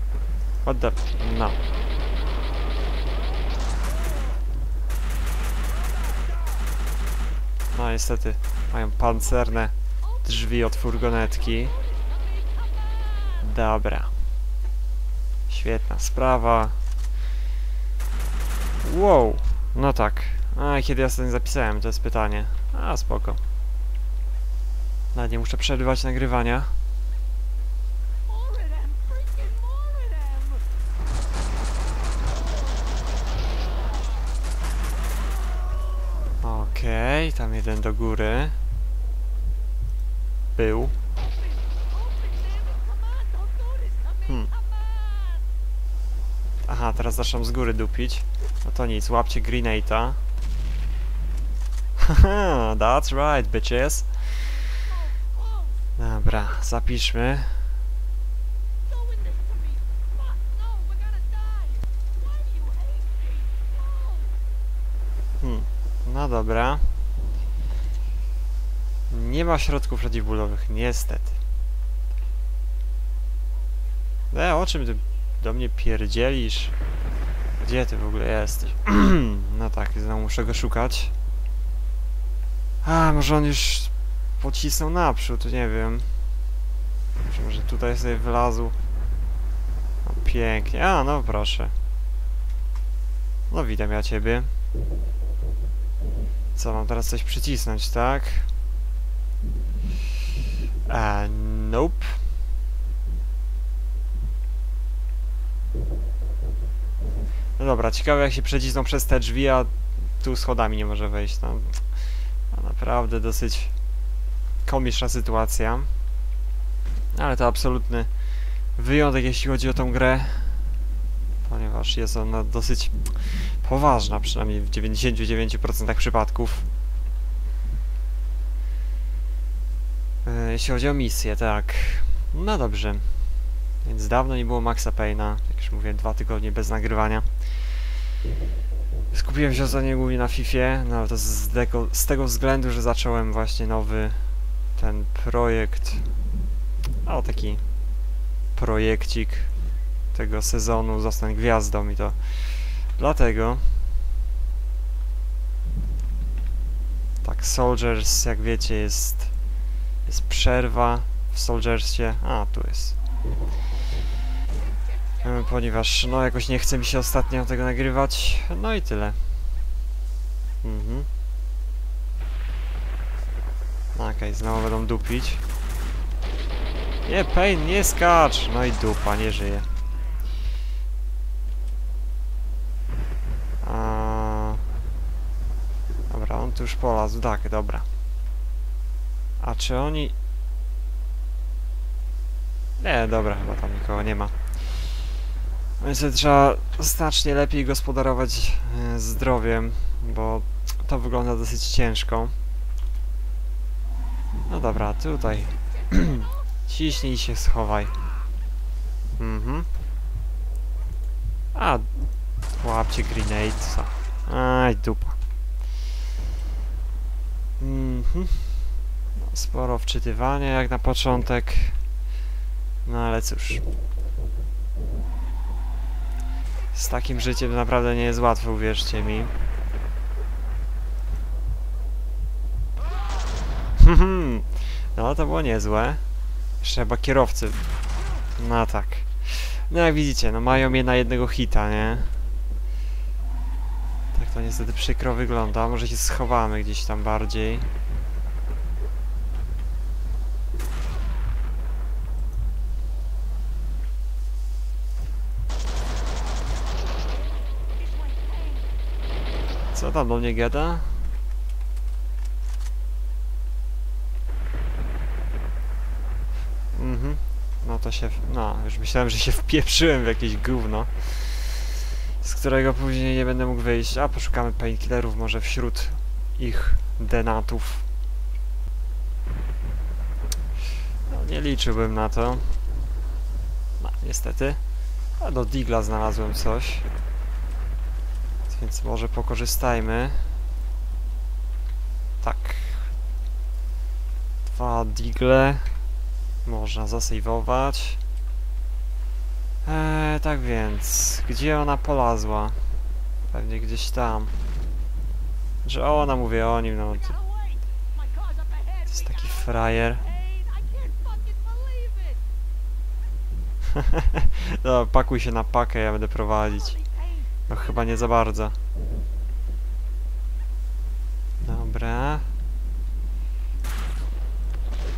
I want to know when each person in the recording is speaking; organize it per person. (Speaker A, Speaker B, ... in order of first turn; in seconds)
Speaker A: 0.6-1.6, 7.7-11.8, 13.4-14.1, 15.5-16.8, 18.8-23.4, 25.1-26.7, 36.4-38.6, 40.5-41.0, 46.7-50.2, 52.0-54.1, 56.0-57.7, 65.4-66.9, 69.1-71.4, 74.3-76.8, 77.6-81.1, 82.8-86.2, 87.2-88.8, 90.0-91.7, 93.5-94.5, 96.6-98.5, 100.9-102.2, 107.6-113.7, 114.7-115.9, 117.1-118.1, 118.7-120.7, 121.5-126.7, 130.2-137.8, 139.1-146.1, 147.0-147.6, 148.6-149.5, 150.1-153.8, 157.2-159.3, 160.1-163.0, 165.2-169.3, 170.6-171.1, 173.9-175.4, 177.1-179.7, 183.6-184.6, 186.1-187.8, 189.4-190.1, 192.8-194.7, 195.8-202.3, 204.5-207.9, 209.2-209.7, 211.5-211.9, 212.6-215.2, 217.6-221.8, 222.8-223.7, 226.7-229.3, 233.8-236.0, 236.6-237.7, 238.3-242.2, 244.1-247.7, 259.7-261.0, 266.7-277.9, 281.1-282.6, 283.8-284.6, 285.2-286.9, 288.5-290.3, 292.2-292.9, 294.4-295.8, 296.4-298.0, 299.6-302.6, 303.3-304.4, 305.6-307.2, 308.9-310.0, 314.0-316.8, 317.5-318.6, 321.4-322.3
Speaker B: 11.8-13.1, 28.3-30.6, 41.7-45.4, 54.7-55.8, 58.9-64.3, 257.9-258.6, 307.9-309.2, 309.9-312.2, 316.7-317.1